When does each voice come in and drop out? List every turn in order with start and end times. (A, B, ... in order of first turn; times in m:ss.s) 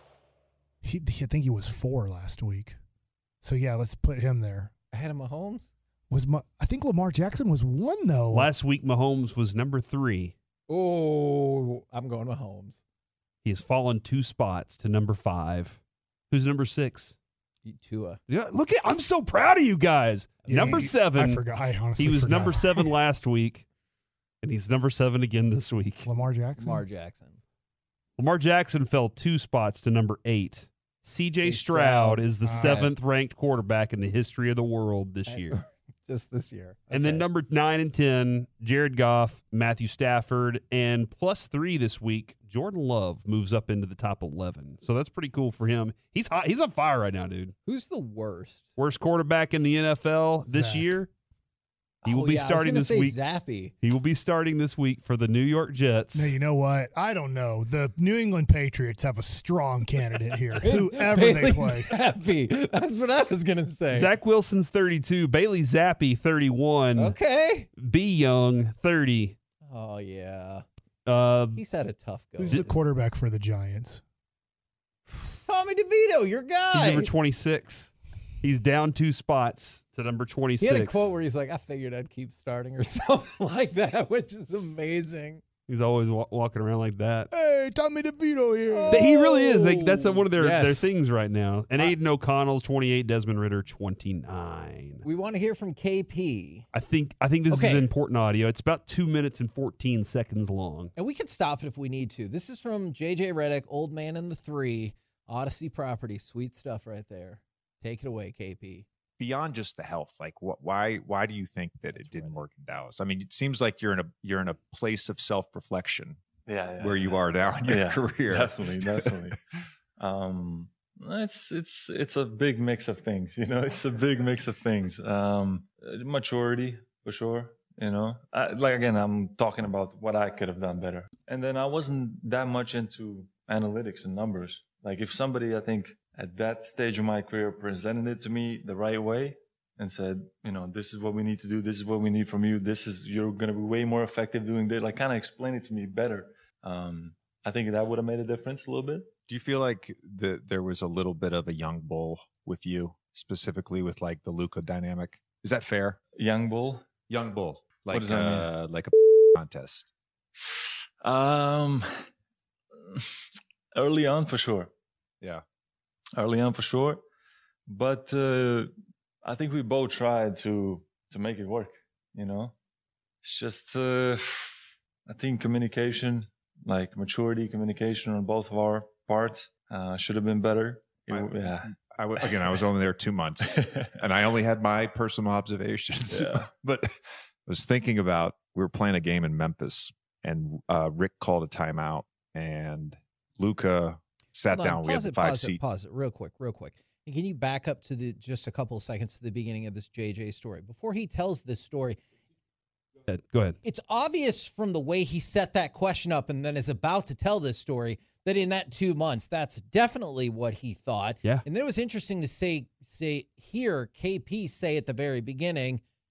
0:00.8-0:02.8 A
0:03.4-0:04.7 A
0:04.9-0:05.7 B
0:06.1-0:08.5 A
0:08.3-0:10.3 C
0:10.7-0:12.8 B
0:13.4-0:17.2 C
0:17.6-0:18.2 B
0:18.3-0:21.4 C
0:20.4-0:20.9 B
0:20.5-0:22.9 A
0:22.0-0:23.6 C
0:24.4-0:26.1 C
0:26.0-0:26.8 A
0:26.6-0:27.4 B
0:28.2-0:35.6 C
0:31.4-0:32.9 B
0:32.4-0:32.8 A
0:35.3-0:37.2 B
0:36.9-0:47.5 C
0:47.6-0:48.7 B
0:48.8-0:51.1 C
0:50.5-0:50.9 A
0:52.0-0:53.7 B
0:52.0-0:53.2 C
0:53.8-0:56.3 C
0:56.1-1:01.9 A
1:00.6-1:04.1 B
1:03.9-1:07.1 C
1:07.0-1:07.7 B
1:07.8-1:09.4 C
1:09.6-1:10.6 B
1:11.0-1:11.6 C
1:11.5-1:12.7 B
1:12.4-1:14.0 A
1:15.1-1:17.1 B
1:16.7-1:21.1 C
1:20.6-1:25.4 B
1:25.7-1:27.3 C
1:27.3-1:29.1 A
1:28.7-1:30.9 B
1:28.9-1:35.0 C
1:35.0-1:36.7 B
1:36.7-1:40.9 C
1:37.5-1:37.9 B
1:41.0-1:48.8 B
1:49.2-1:56.2 D
1:51.9-1:52.4 B
1:56.5-1:59.3 E
1:56.8-1:59.0 D
2:00.0-2:29.1 E
2:29.3-2:36.0 D
2:36.2-2:36.8 E
2:37.1-2:39.9 D
2:37.9-2:38.5 E
2:40.4-2:41.8 E
2:42.8-2:44.7 E
2:46.2-2:47.0 E
2:47.7-2:48.7 E
2:49.2-2:52.5 E
2:53.2-2:54.5 E
2:55.1-3:01.7 E
3:01.9-3:06.9 D
3:06.1-3:06.5 E
3:07.4-3:15.6 D
3:14.5-3:22.0 B
3:23.1-3:23.6 C
3:23.6-3:35.8 B